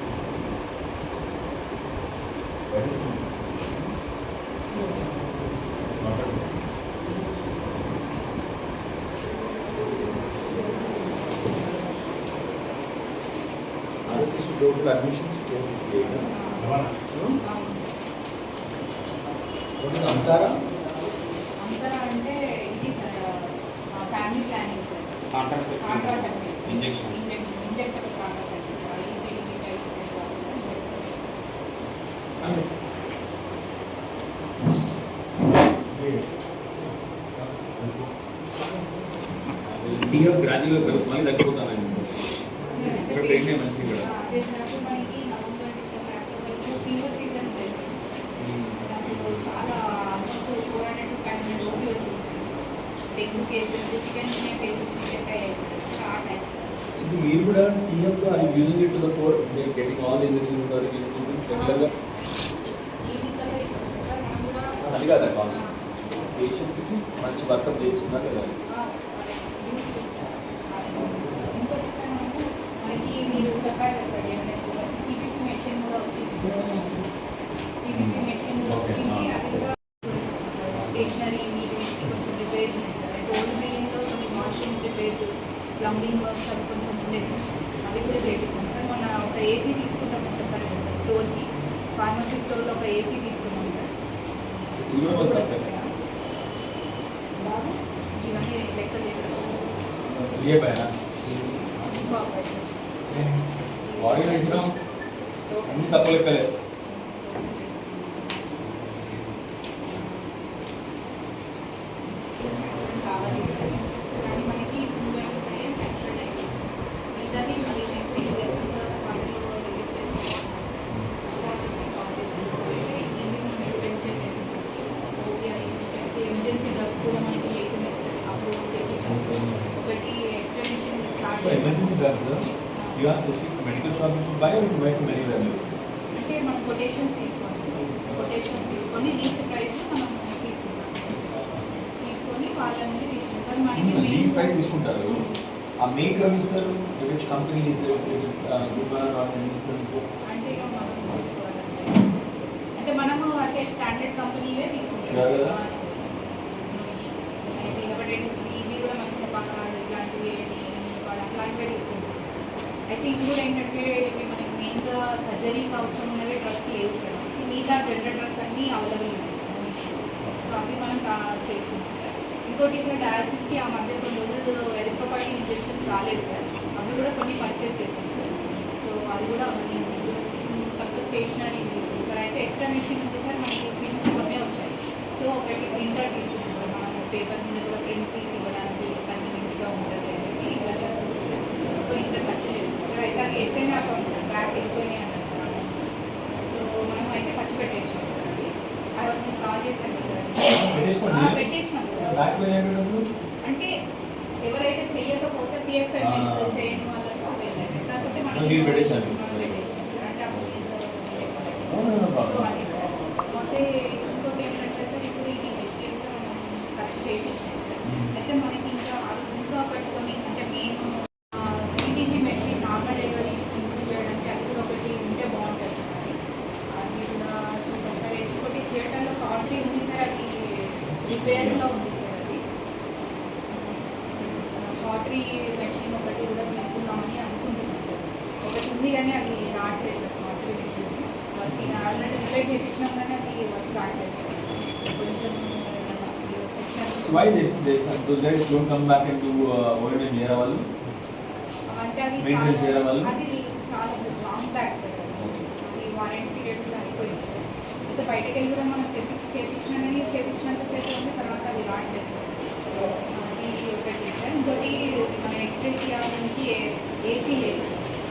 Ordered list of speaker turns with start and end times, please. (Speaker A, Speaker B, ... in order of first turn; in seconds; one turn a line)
Speaker A: 2.7-3.9
Speaker A: 6.0-6.3
Speaker A: 14.1-16.3
Speaker B: 16.3-16.9
Speaker A: 17.1-17.4
Speaker B: 17.4-17.9
Speaker A: 19.8-20.6
Speaker B: 21.6-25.1
Speaker C: 25.3-27.2
Speaker B: 25.8-31.2
Speaker A: 39.9-42.2
Speaker B: 42.7-48.2
Speaker A: 43.1-44.1
Speaker A: 48.4-48.8
Speaker B: 48.8-52.6
Speaker B: 53.1-56.5
Speaker A: 56.9-61.9
Speaker B: 61.5-64.8
Speaker A: 64.8-65.6
Speaker A: 66.2-68.6
Speaker B: 68.7-77.1
Speaker B: 77.8-93.9
Speaker A: 78.8-79.1
Speaker A: 94.8-95.7
Speaker B: 94.9-95.9
Speaker B: 97.4-99.7
Speaker A: 100.3-100.9
Speaker C: 101.2-101.8
Speaker B: 101.8-104.7
Speaker A: 104.0-104.7
Speaker B: 105.5-106.2
Speaker A: 105.7-106.5
Speaker B: 106.9-109.1
Speaker B: 109.9-110.5
Speaker B: 112.2-133.2
Speaker A: 131.4-132.4
Speaker A: 133.0-135.7
Speaker B: 136.1-141.2
Speaker B: 142.0-145.4
Speaker A: 143.8-145.2
Speaker A: 145.8-150.0
Speaker B: 150.3-152.2
Speaker B: 152.8-202.2
Speaker A: 155.1-155.6
Speaker A: 200.4-203.1
Speaker B: 203.4-203.7
Speaker B: 204.4-226.2
Speaker A: 206.0-206.6
Speaker A: 208.3-209.6
Speaker A: 211.7-212.6
Speaker A: 217.8-218.2
Speaker B: 226.8-232.4
Speaker A: 231.0-231.7
Speaker B: 233.5-247.4
Speaker A: 241.5-241.8
Speaker A: 247.0-250.7
Speaker B: 251.7-262.3
Speaker A: 252.2-253.1
Speaker A: 255.2-255.5
Speaker B: 263.1-267.8